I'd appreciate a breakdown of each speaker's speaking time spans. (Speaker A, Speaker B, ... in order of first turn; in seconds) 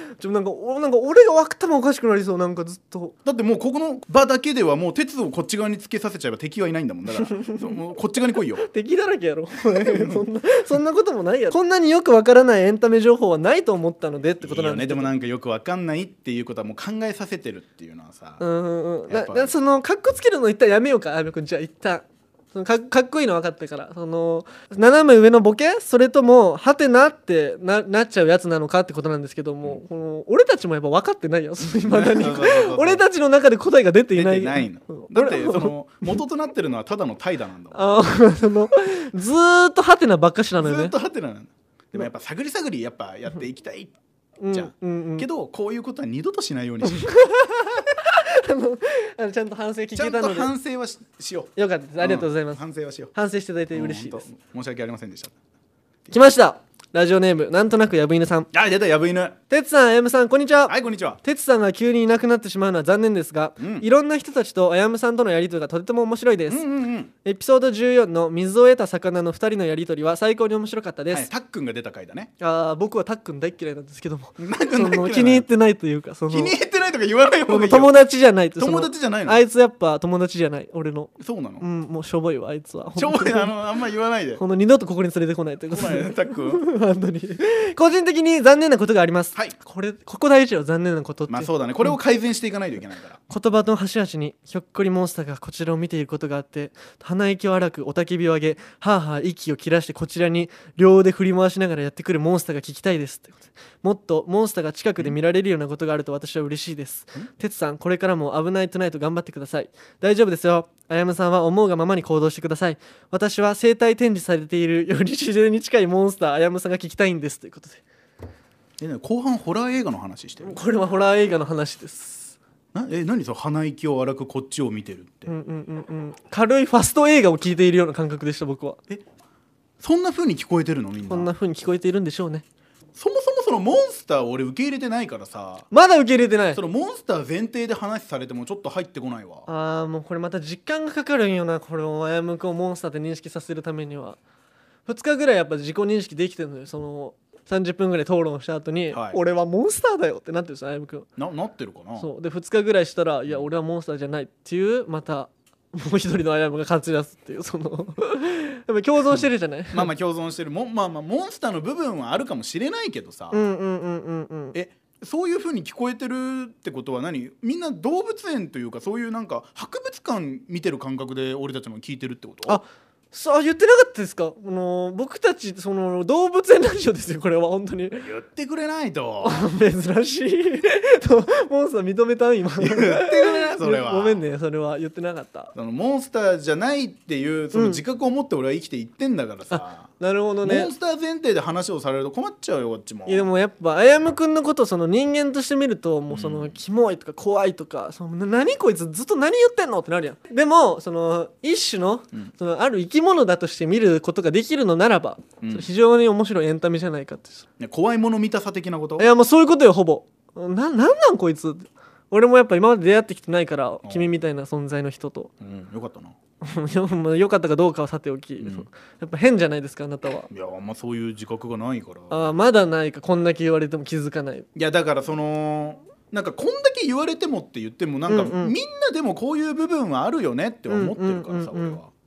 Speaker A: 0.2-3.1, 7.3-7.6, 8.6-15.1, 18.4-36.1, 37.7-41.0, 44.4-45.3, 47.0-50.5, 51.6-52.6, 53.1-54.3, 56.1-58.5, 59.5-66.6, 67.2-71.3, 72.4-76.6, 77.5-83.5, 84.4-92.0, 93.3-117.8, 120.4-122.4, 125.3-128.8, 131.1-132.4, 135.7-136.6, 139.5-144.2, 144.9-151.1, 152.0-159.9, 163.3-164.6, 172.4-178.1, 179.2-185.5, 187.5-187.8, 189.5-190.7, 193.1-207.5, 209.0-215.3, 216.4-220.3, 222.1-224.5, 228.1-228.6, 230.7-231.8
Speaker B: 3.2-8.7, 9.7-10.2, 14.4-18.4, 19.1-19.5, 31.7-33.0, 34.1-37.9, 40.6-43.9, 44.5-47.1, 50.0-53.1, 53.7-55.3, 58.5-59.4, 60.7-61.2, 63.6-63.9, 66.5-67.1, 71.1-72.3, 74.4-75.5, 76.3-78.0, 78.6-79.4, 81.2-81.7, 83.0-84.4, 85.7-86.6, 91.3-93.2, 118.8-120.6, 122.7-125.3, 129.8-131.3, 132.9-135.7, 136.5-139.5, 148.9-149.2, 151.2-152.1, 159.1-163.5, 164.5-172.6, 178.0-179.5, 182.6-184.3, 185.5-189.9, 190.4-193.3, 196.1-196.6, 205.4-205.7, 207.6-209.1, 213.8-214.2, 215.4-216.2, 218.4-218.7, 220.3-222.4, 224.6-231.9